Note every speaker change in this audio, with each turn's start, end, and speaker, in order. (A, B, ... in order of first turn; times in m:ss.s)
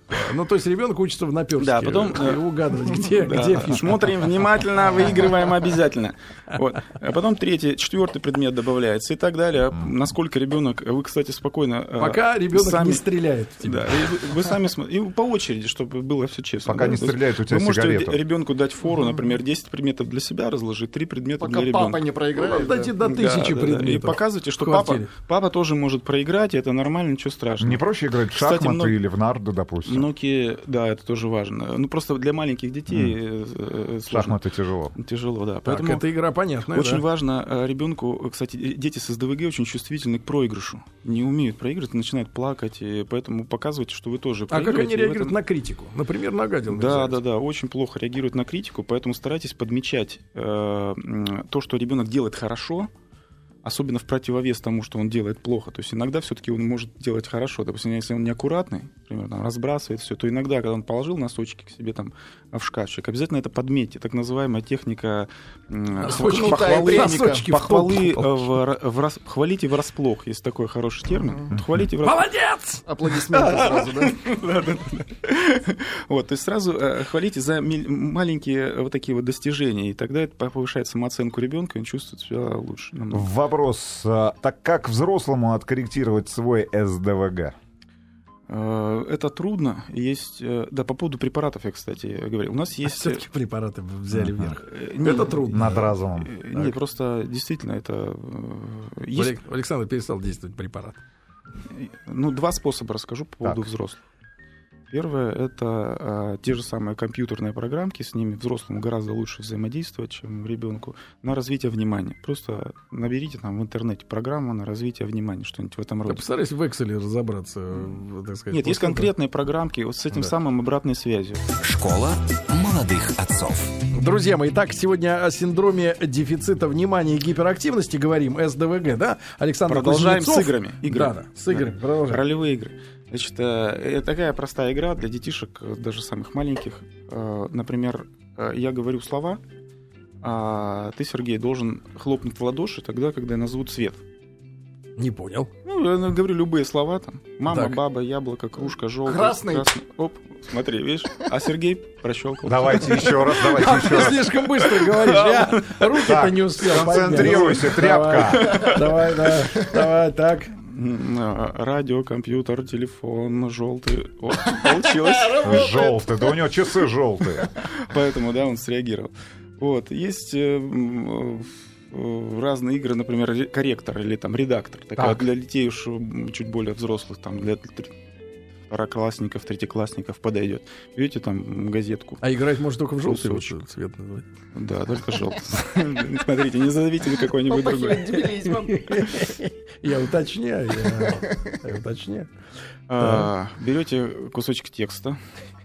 0:00.1-0:04.0 A
0:01.6-0:02.4 B
0:02.9-0:13.1 B
0:12.0-0:14.1 A
0:13.6-0:22.0 B
0:16.6-0:18.2 C
0:21.4-0:23.0 D
0:22.4-0:25.1 A
0:23.0-0:28.9 B
0:27.6-0:30.1 C
0:29.8-0:34.4 B
0:32.9-0:33.2 C
0:34.1-0:34.9 C
0:34.9-0:36.0 B
0:35.6-0:37.0 A
0:36.7-0:45.4 B
0:44.5-0:47.2 A
0:46.7-0:52.9 B
0:53.6-1:12.3 B
1:06.0-1:08.5 A
1:06.1-1:07.4 D
1:11.5-1:11.8 C
1:12.0-1:12.8 A
1:12.8-1:14.2 D
1:13.3-1:23.3 B
1:23.1-1:27.6 C
1:28.5-1:33.2 B
1:32.8-1:36.0 A
1:34.1-1:34.6 C
1:34.6-1:39.4 B
1:35.5-1:36.3 C
1:39.1-1:41.0 A
1:41.7-1:44.0 B
1:44.9-1:56.3 B
1:56.0-1:59.1 A
1:58.5-2:01.6 B
2:01.6-2:03.7 E
2:03.9-2:12.2 A
2:09.7-2:19.4 B
2:20.2-2:24.0 B
2:25.0-2:25.5 A
2:25.6-2:36.0 B
2:27.5-2:27.8 A
2:29.0-2:29.7 D
2:32.4-2:34.3 C
2:33.3-2:40.6 A
2:36.0-2:38.7 C
2:37.1-2:39.1 B
2:40.6-2:45.8 B
2:44.6-2:46.3 D
2:45.4-2:47.5 C
2:47.6-2:58.0 B
2:55.0-2:55.2 A
2:58.7-3:02.2 B
3:02.2-3:04.3 A
3:03.0-3:03.6 B
3:04.5-3:08.4 B
3:07.5-3:09.0 D
3:08.6-3:12.3 A
3:10.8-3:11.4 D
3:12.9-3:15.2 B
3:13.0-3:13.3 A